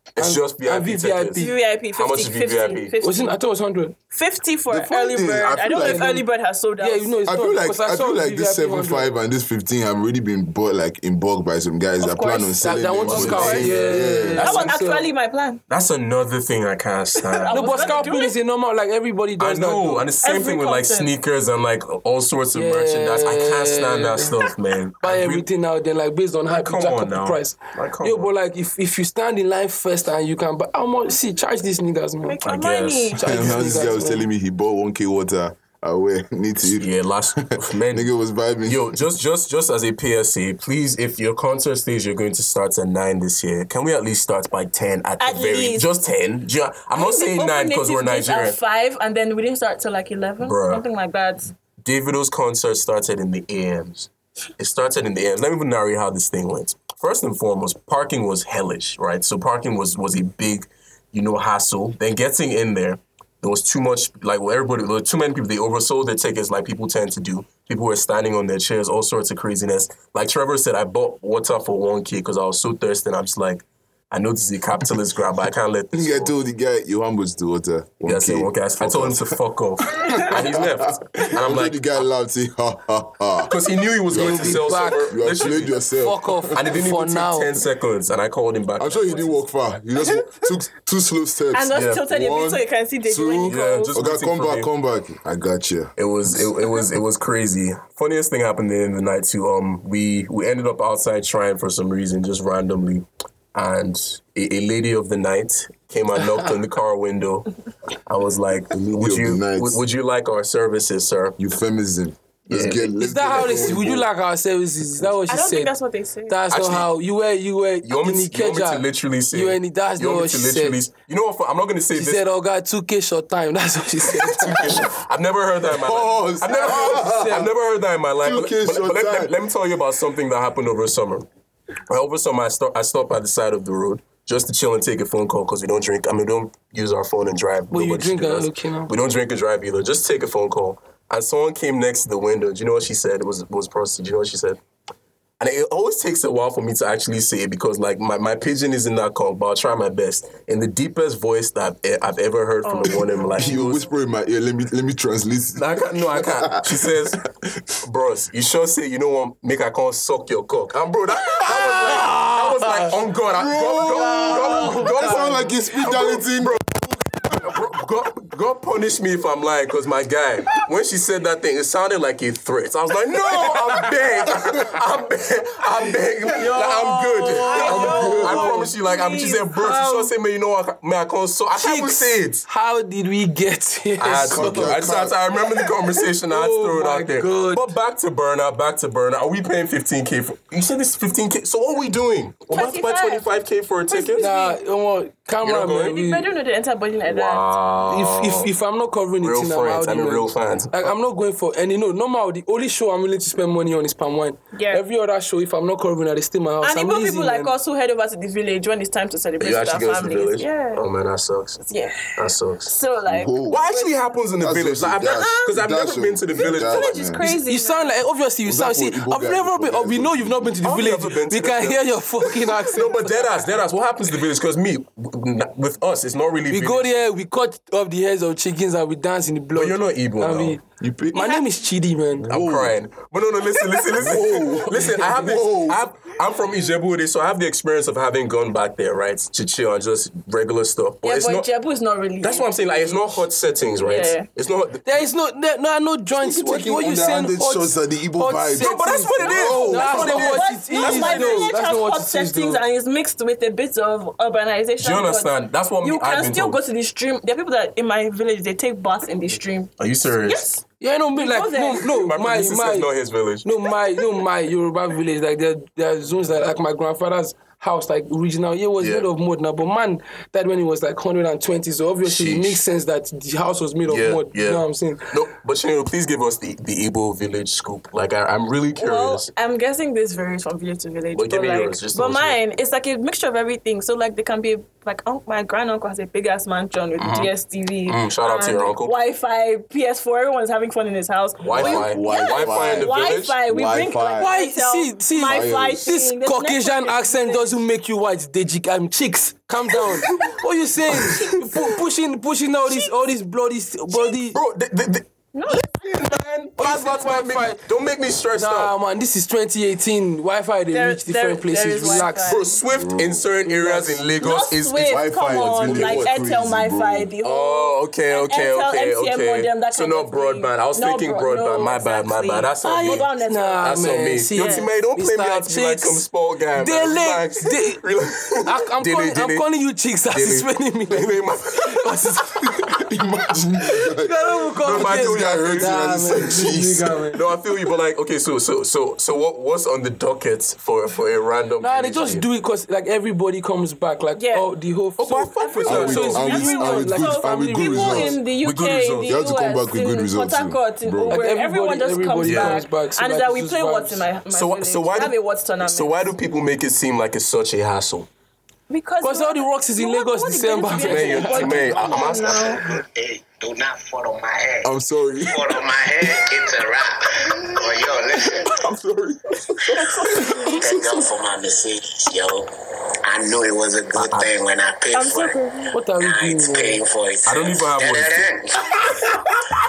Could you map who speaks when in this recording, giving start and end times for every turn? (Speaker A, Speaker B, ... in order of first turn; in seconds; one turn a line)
Speaker A: 0.2-2.9
Speaker B: 0.2-1.6
Speaker C: 1.4-3.4
Speaker B: 3.0-4.0
Speaker C: 4.1-7.2
Speaker D: 4.7-6.1
Speaker B: 5.6-6.3
Speaker B: 6.8-9.1
Speaker D: 7.2-14.7
Speaker C: 12.1-12.5
Speaker B: 12.2-15.1
Speaker A: 13.0-14.0
Speaker C: 13.2-15.6
Speaker A: 15.7-18.2
Speaker C: 17.2-18.4
Speaker B: 17.5-20.1
Speaker A: 19.4-25.5
Speaker C: 20.2-21.1
Speaker B: 22.5-24.4
Speaker B: 25.0-32.4
Speaker A: 26.5-28.3
Speaker C: 32.2-33.6
Speaker A: 32.4-33.7
Speaker B: 33.1-34.3
Speaker D: 33.2-36.9
Speaker A: 36.7-38.1
Speaker D: 37.4-39.0
Speaker A: 38.6-48.6
Speaker C: 45.2-45.9
Speaker C: 46.9-51.5
Speaker A: 50.4-50.8
Speaker A: 51.8-76.3
Speaker D: 75.9-79.4
Speaker A: 78.0-82.0
Speaker D: 79.9-83.6
Speaker A: 83.5-85.8
Speaker D: 84.1-86.6
Speaker B: 84.1-85.1
Speaker B: 86.0-87.6
Speaker A: 86.5-89.4
Speaker D: 88.8-95.9
Speaker C: 91.5-93.9
Speaker A: 91.7-92.0
Speaker A: 93.4-94.7
Speaker A: 96.0-107.5
Speaker A: 108.1-111.4
Speaker D: 108.7-109.8
Speaker D: 111.4-114.1
Speaker A: 112.5-113.9
Speaker B: 113.0-115.7
Speaker C: 115.3-116.4
Speaker B: 116.3-120.8
Speaker A: 116.5-116.9
Speaker A: 117.8-122.2
Speaker B: 121.9-124.8
Speaker A: 124.1-131.3
Speaker D: 125.7-127.5
Speaker B: 126.5-127.5
Speaker D: 128.2-129.3
Speaker A: 131.9-144.6
Speaker B: 137.7-138.9
Speaker A: 145.4-153.9
Speaker C: 152.6-153.3
Speaker D: 152.9-157.5
Speaker A: 155.6-157.3
Speaker A: 157.8-166.6
Speaker B: 161.4-162.9
Speaker D: 163.3-167.7
Speaker B: 163.8-165.5
Speaker A: 167.3-182.4
Speaker D: 173.3-174.8
Speaker B: 176.3-178.7
Speaker C: 177.4-179.9
Speaker D: 177.6-178.6
Speaker B: 179.6-180.1
Speaker B: 181.6-184.9
Speaker A: 184.0-194.3
Speaker D: 184.2-185.2
Speaker B: 186.3-187.7
Speaker C: 192.5-193.3
Speaker C: 193.9-194.6
Speaker B: 194.2-196.3
Speaker A: 195.4-196.0
Speaker C: 195.9-197.5
Speaker A: 197.1-198.5
Speaker B: 197.9-207.5
Speaker A: 199.2-200.9
Speaker C: 204.5-204.8
Speaker C: 206.6-210.8
Speaker A: 209.4-212.7
Speaker C: 211.7-213.9
Speaker D: 213.1-213.6
Speaker A: 213.5-217.3
Speaker D: 214.4-217.2
Speaker C: 215.1-215.5
Speaker C: 216.4-217.9
Speaker B: 217.2-223.2
Speaker D: 218.4-220.6
Speaker A: 220.6-226.9
Speaker B: 226.5-230.6
Speaker A: 229.6-230.6
Speaker D: 230.8-231.3
Speaker B: 231.1-232.3
Speaker C: 231.2-231.4
Speaker D: 232.2-232.8
Speaker A: 232.3-241.5
Speaker D: 234.0-235.8
Speaker B: 234.3-235.0
Speaker C: 241.0-243.2
Speaker A: 242.2-245.0
Speaker C: 243.8-244.3
Speaker B: 244.9-252.6
Speaker D: 246.1-250.1
Speaker A: 248.6-251.5
Speaker C: 249.2-255.3
Speaker A: 254.8-256.6
Speaker C: 255.8-260.6
Speaker A: 259.8-260.4
Speaker B: 260.8-262.9
Speaker C: 261.2-261.9
Speaker A: 261.8-263.5
Speaker B: 263.4-275.1
Speaker A: 268.8-269.1
Speaker A: 272.0-272.6
Speaker A: 273.9-279.3
Speaker C: 278.8-297.6
Speaker A: 281.1-282.4
Speaker A: 287.0-287.3
Speaker A: 287.9-289.0
Speaker A: 291.4-293.4
Speaker D: 291.5-294.3
Speaker B: 294.2-304.4
Speaker D: 295.2-295.9
Speaker A: 299.9-300.3
Speaker A: 300.9-301.3
Speaker C: 301.2-301.4
Speaker A: 304.3-308.7
Speaker C: 305.3-305.7
Speaker B: 306.6-307.6
Speaker B: 308.3-312.4
Speaker C: 310.7-312.6
Speaker A: 311.9-316.2
Speaker D: 312.7-313.3
Speaker B: 313.4-314.1
Speaker C: 314.2-324.7
Speaker D: 314.8-317.1
Speaker A: 317.2-329.5
Speaker B: 322.6-326.0
Speaker B: 326.6-327.9
Speaker B: 328.4-332.9
Speaker A: 330.1-332.2
Speaker D: 332.6-337.1
Speaker B: 333.8-337.2
Speaker A: 334.6-335.9
Speaker A: 337.1-342.3
Speaker B: 341.6-348.2
Speaker C: 344.2-344.5
Speaker A: 345.0-346.4
Speaker C: 345.4-356.1
Speaker D: 345.6-348.2
Speaker A: 348.4-349.1
Speaker D: 349.1-351.2
Speaker B: 351.1-354.1
Speaker A: 352.2-352.6
Speaker A: 354.3-358.1
Speaker C: 358.7-362.6
Speaker B: 359.0-361.7
Speaker A: 360.8-362.6
Speaker E: 361.7-368.5
Speaker D: 364.6-365.6
Speaker D: 368.4-370.8
Speaker C: 369.8-370.6
Speaker E: 370.1-372.5
Speaker E: 373.1-375.4
Speaker A: 373.9-374.3
Speaker C: 374.9-375.7
Speaker B: 375.7-376.8
Speaker E: 375.9-379.2
Speaker A: 377.3-378.3